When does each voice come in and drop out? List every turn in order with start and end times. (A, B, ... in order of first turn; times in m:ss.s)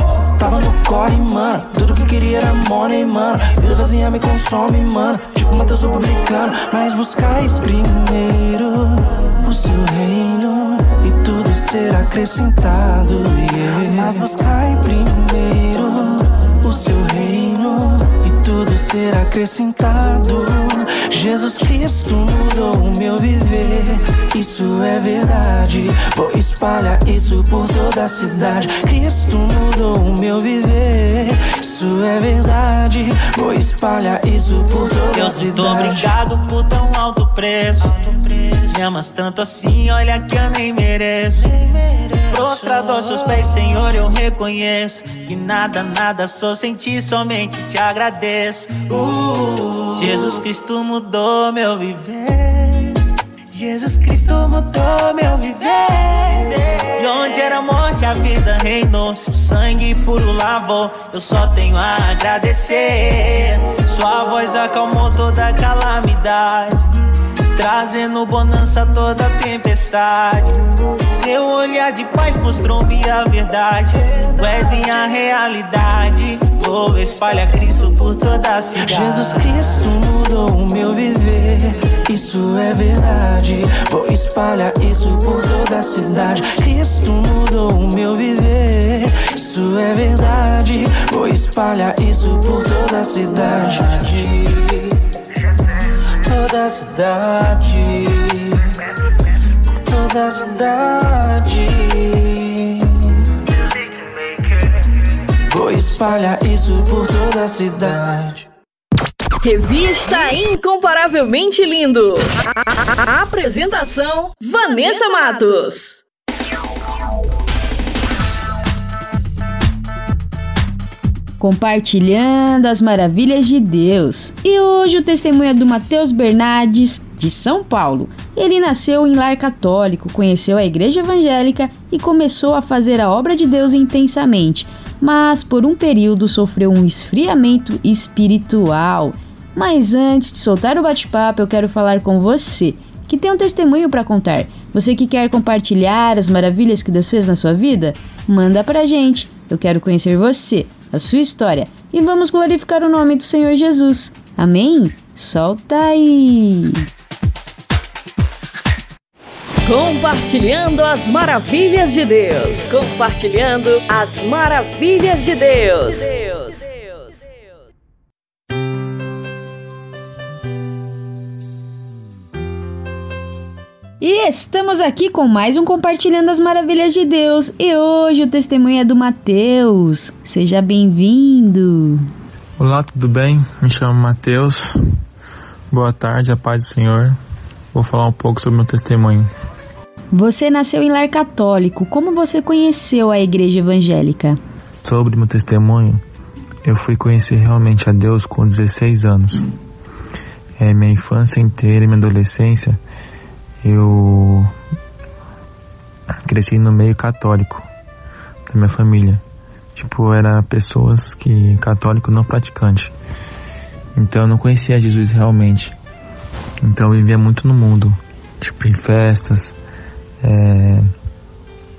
0:00.4-0:36.0 A
0:35.0-0:53.0 B
0:53.5-1:06.8 B
1:07.5-1:19.5 B
1:18.8-1:34.8 A
1:36.2-1:38.5 A
1:39.8-1:42.4 A
1:45.5-1:48.4 A
1:49.4-1:52.3 C
1:53.0-1:56.0 C
2:01.4-2:36.9 D
2:39.7-2:47.1 C
2:54.0-3:02.1 D
3:02.6-3:04.7 E
3:05.7-3:07.2 E
3:07.7-3:09.3 E
3:10.1-3:14.4 D
3:14.8-3:16.0 E
3:16.6-3:19.4 E
3:20.6-3:22.8 E
3:23.6-3:24.5 E
3:26.3-3:27.7 E
3:28.5-3:29.2 E
3:29.8-3:32.9 E
3:34.0-3:35.7 E
3:36.6-3:39.6 E
3:40.2-3:40.9 E